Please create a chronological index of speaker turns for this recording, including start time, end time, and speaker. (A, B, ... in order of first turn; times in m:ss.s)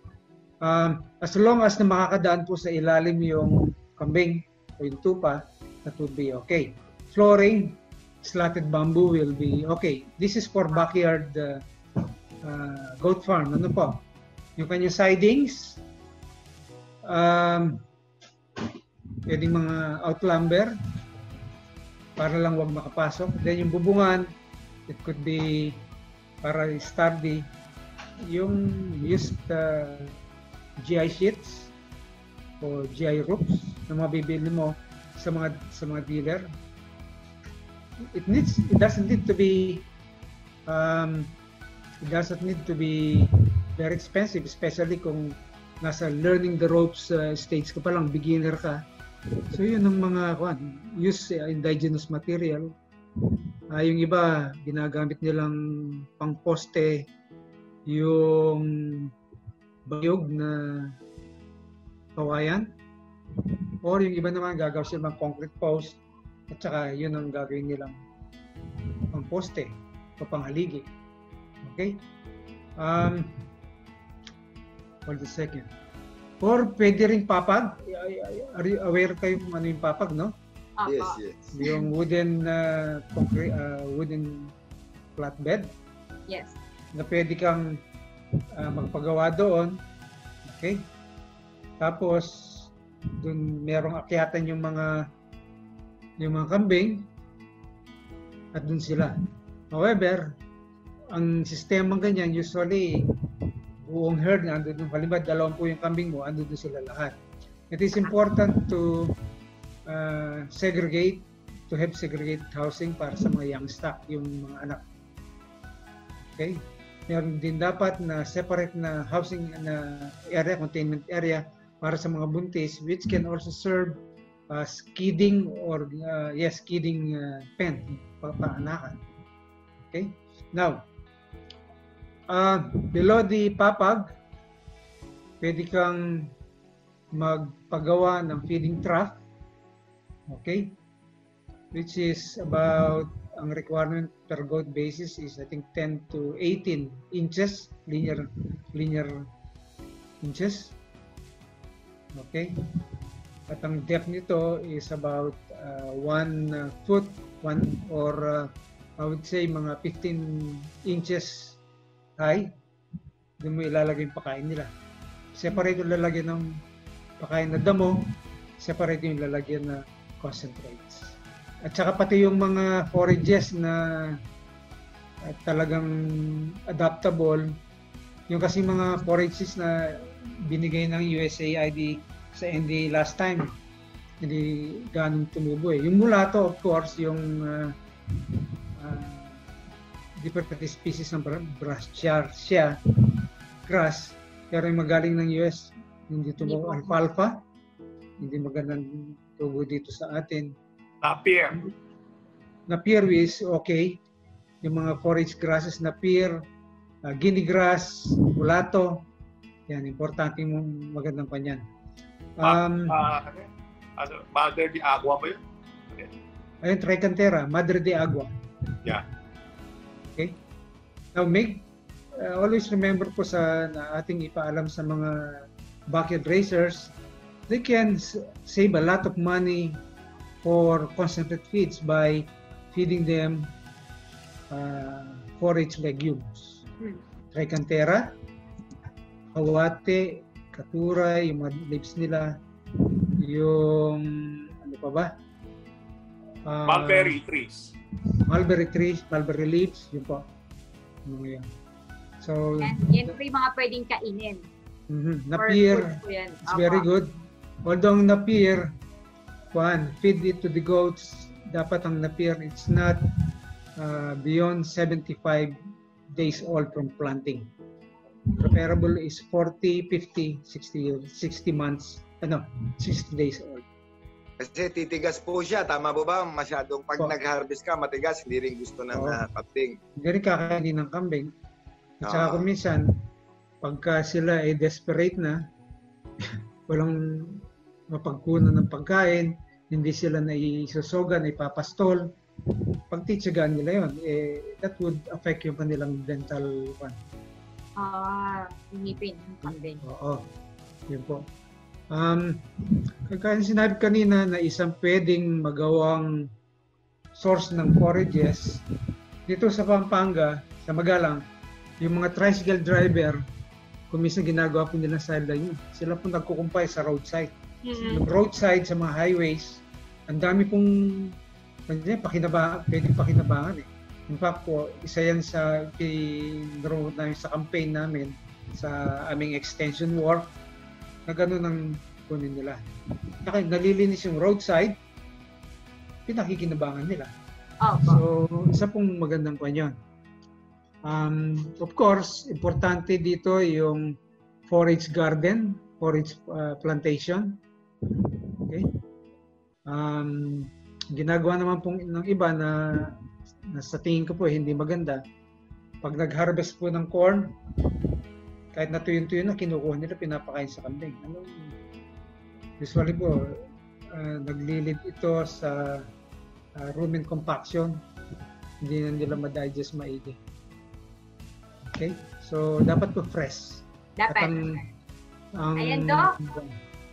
0:00.6-0:14.0 A
0:14.6-0:15.8 A
0:17.0-0:17.8 A
0:19.3-0:20.7 A
0:22.2-0:24.3 A
0:24.9-0:25.8 A
0:26.4-0:27.5 A
0:28.3-0:30.2 A
0:30.8-0:31.7 A
0:32.6-0:36.5 A
0:38.1-0:39.9 A
0:40.7-0:41.3 A
0:42.0-0:48.8 A
0:49.5-0:57.1 A
0:57.9-0:59.1 A
0:59.8-1:01.0 A
1:02.2-1:02.7 A
1:03.5-1:08.0 A
1:09.1-1:10.9 A
1:11.6-1:12.0 A
1:12.8-1:13.5 A
1:15.0-1:15.7 A
1:16.4-1:20.3 A
1:20.8-1:21.8 B
1:20.8-1:21.5 C
1:21.6-1:24.5 A
1:25.2-1:25.7 A
1:26.3-1:26.6 B
1:26.9-1:27.7 A
1:28.6-1:29.8 A
1:30.4-1:30.9 A
1:31.8-1:35.0 A
1:36.2-1:37.1 A
1:38.5-1:39.1 A
1:39.7-1:40.2 A
1:41.1-1:43.1 A
1:43.8-1:47.1 A
1:47.7-1:49.1 A
1:49.9-1:54.8 A
1:56.2-2:04.0 A
2:04.5-2:09.0 A
2:09.8-2:10.8 A
2:12.3-2:14.1 A
2:15.4-2:16.3 A
2:17.1-2:19.2 A
2:20.3-2:20.8 A
2:21.7-2:29.2 A
2:30.2-2:30.8 A
2:32.1-2:32.9 A
2:33.5-2:41.6 A
2:42.2-2:42.5 A
2:43.4-2:44.7 A
2:45.3-2:46.5 A
2:47.2-2:54.2 A
2:55.2-2:57.6 A
2:58.3-3:03.5 A
3:04.2-3:07.8 A
3:08.3-3:09.5 A
3:10.2-3:17.4 A
3:16.4-3:16.9 B
3:18.2-3:20.5 A
3:21.0-3:21.7 D
3:22.7-3:24.0 A
3:24.6-3:26.4 A
3:27.0-3:29.0 A
3:29.7-3:31.6 A
3:32.4-3:33.0 A
3:32.4-3:35.4 D
3:36.6-3:38.3 A
3:41.1-3:46.9 A
3:47.5-3:49.8 A
3:50.4-3:53.5 A
3:54.5-3:56.6 A
3:57.3-3:58.1 A
3:59.3-4:05.1 A
4:06.4-4:07.2 A
4:06.6-4:07.7 D
4:08.2-4:10.2 A
4:11.0-4:11.5 A
4:12.2-4:13.2 A
4:12.6-4:14.5 B
4:14.9-4:17.1 A
4:15.3-4:16.9 B
4:17.6-4:18.7 A
4:19.5-4:23.0 A
4:23.8-4:25.6 A
4:26.1-4:27.5 A
4:28.3-4:33.6 A
4:34.4-4:39.8 C
4:38.9-4:39.2 A
4:40.0-4:41.3 A
4:42.0-4:42.4 C
4:42.0-4:42.8 A
4:43.6-4:45.4 A
4:46.2-4:57.0 A
4:57.8-4:59.8 B
4:59.4-5:00.2 A
5:00.9-5:01.2 A
5:01.9-5:06.1 A
5:07.2-5:08.6 A
5:09.3-5:11.2 A
5:11.8-5:13.2 A
5:13.9-5:21.1 A
5:17.6-5:18.0 B
5:21.7-5:30.3 A
5:31.1-5:32.6 A
5:33.2-5:34.8 A
5:36.1-5:37.1 A
5:37.6-5:38.0 B
5:37.8-5:39.7 A
5:40.8-5:43.9 A
5:44.5-5:48.7 A
5:49.7-5:53.0 A
5:53.5-5:55.0 A
5:55.8-5:57.8 A
5:58.5-6:01.5 A
6:02.6-6:03.4 A
6:03.9-6:05.9 A
6:06.6-6:07.8 A
6:08.6-6:10.2 A
6:11.7-6:14.6 A
6:14.0-6:14.6 B
6:15.4-6:16.6 A
6:15.6-6:16.1 B